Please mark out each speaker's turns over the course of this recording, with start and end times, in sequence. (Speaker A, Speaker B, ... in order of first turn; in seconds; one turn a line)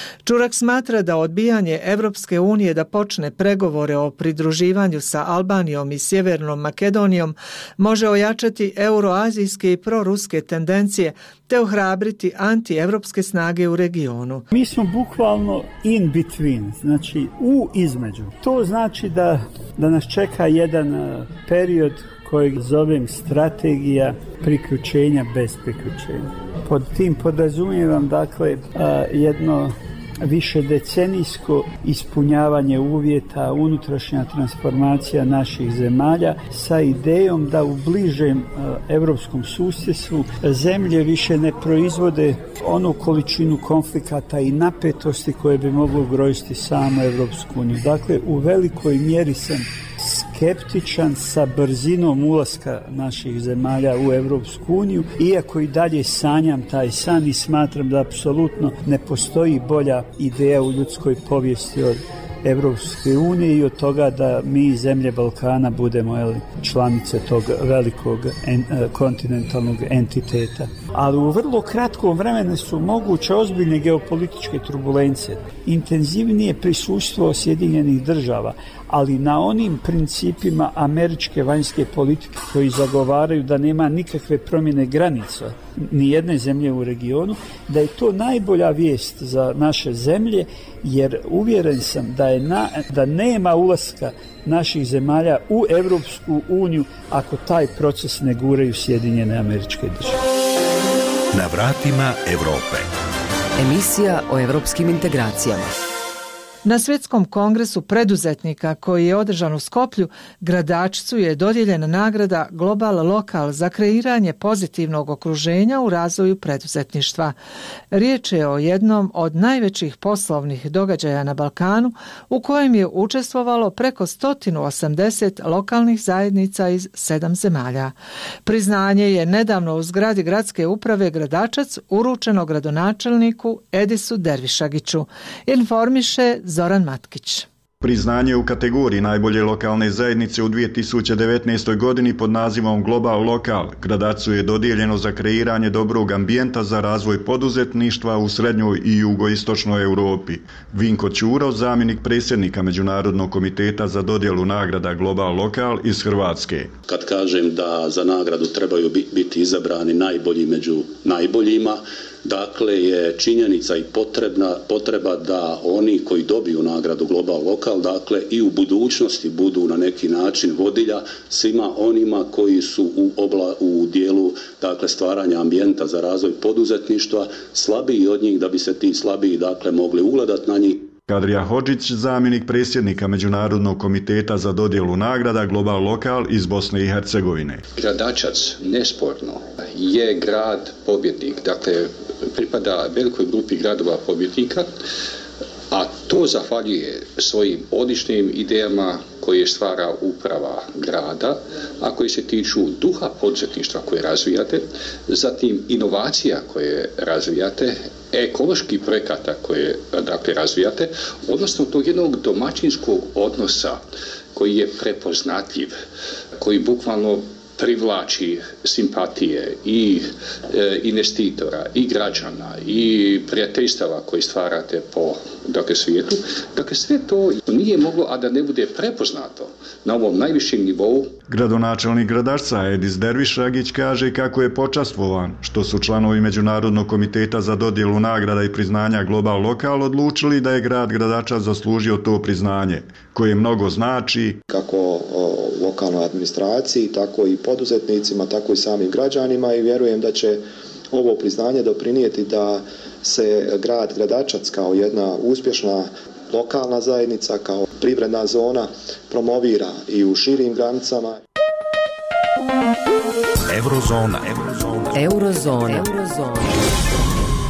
Speaker A: 0.2-14.4
Speaker B: 14.5-100.2
Speaker C: 101.3-102.9
Speaker D: 103.6-105.7
Speaker A: 106.7-117.3
Speaker A: 117.9-127.9
Speaker A: 128.5-137.5
Speaker E: 137.8-156.8
Speaker F: 156.8-180.9
Speaker E: 181.1-187.6
Speaker G: 187.8-194.7
Speaker G: 195.7-213.8
Speaker G: 214.3-215.7
Speaker G: 216.4-231.1
Speaker E: 231.3-244.4
Speaker H: 244.5-261.2
Speaker C: 263.5-264.9
Speaker D: 264.9-266.6